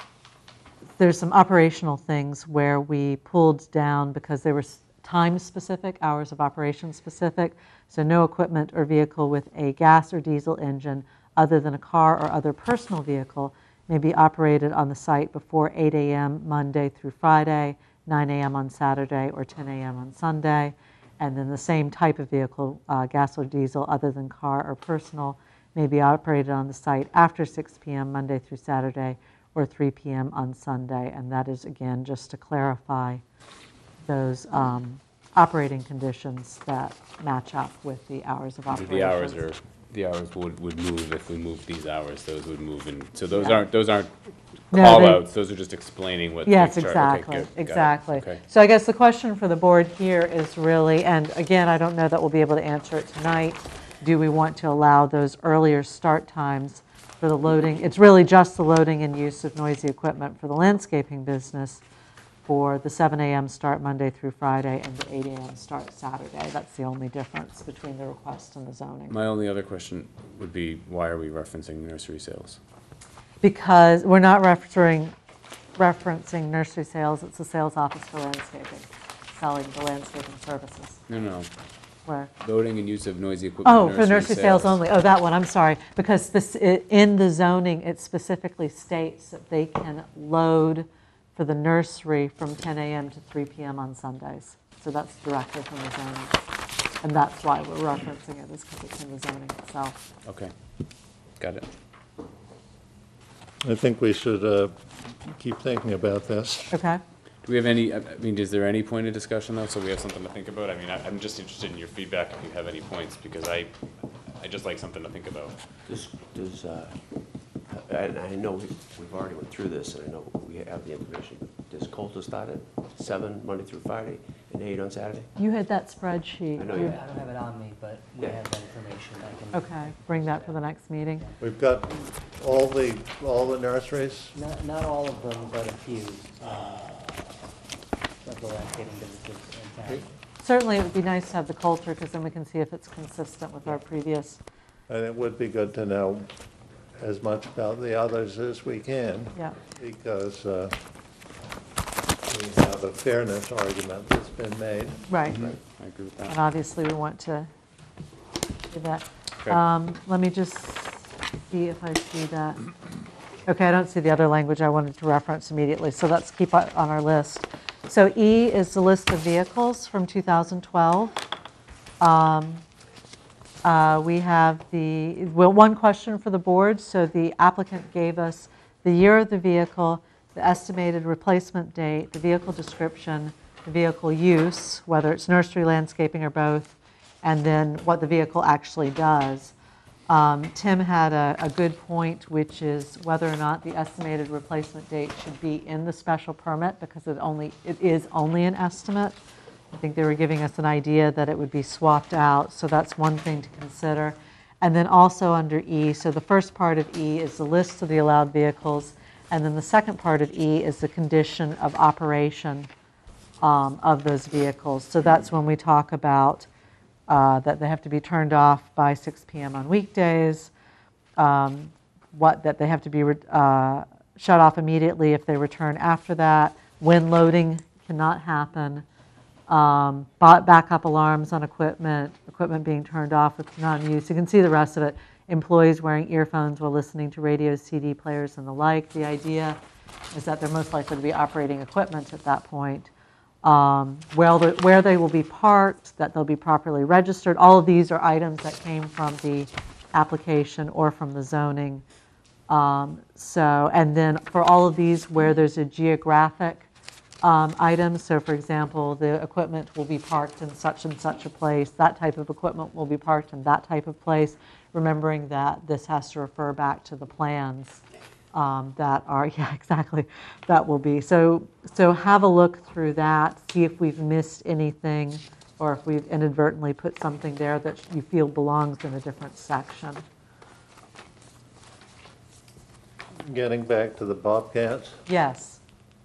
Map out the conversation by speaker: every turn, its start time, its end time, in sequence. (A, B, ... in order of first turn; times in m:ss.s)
0:01.0-0:33.2 A
0:34.1-0:39.4 A
0:38.7-0:44.1 B
0:43.3-0:43.6 A
0:44.7-0:48.4 B
0:44.7-0:45.2 A
0:46.5-1:01.8 A
1:02.5-1:09.2 A
1:09.1-1:12.6 B
1:13.4-1:15.2 A
1:15.8-1:21.0 A
1:21.1-1:21.5 B
1:22.1-1:22.3 A
1:22.4-1:24.8 B
1:23.6-1:36.4 A
1:37.0-1:40.0 A
1:40.3-1:40.5 B
1:41.4-1:41.7 B
1:43.6-1:46.7 C
1:46.7-1:47.0 A
1:47.4-1:53.7 B
1:54.4-1:55.6 B
1:55.9-1:57.0 D
1:57.7-2:05.3 D
2:05.4-2:07.0 A
2:06.6-2:07.0 D
2:06.7-2:10.6 E
2:09.5-2:11.3 A
2:11.4-2:14.4 C
2:14.4-2:17.2 E
2:18.2-2:20.1 E
2:20.4-2:24.4 A
2:24.9-2:26.3 C
2:27.0-2:30.8 C
2:32.3-2:35.4 C
2:35.1-2:35.4 A
2:35.3-2:36.4 B
2:36.3-2:37.5 A
2:38.7-2:42.7 A
2:43.5-2:51.2 A
2:52.0-2:52.6 A
2:53.6-3:09.5 A
3:10.1-3:19.2 A
3:19.7-3:32.7 A
3:33.4-3:36.5 A
3:37.1-3:40.5 A
3:41.2-3:48.8 A
3:49.5-3:59.6 A
4:00.1-4:02.9 A
4:03.4-4:11.8 A
4:12.5-4:16.7 A
4:17.2-4:27.8 A
4:28.3-4:40.0 A
4:43.3-4:45.0 C
4:45.1-4:45.6 A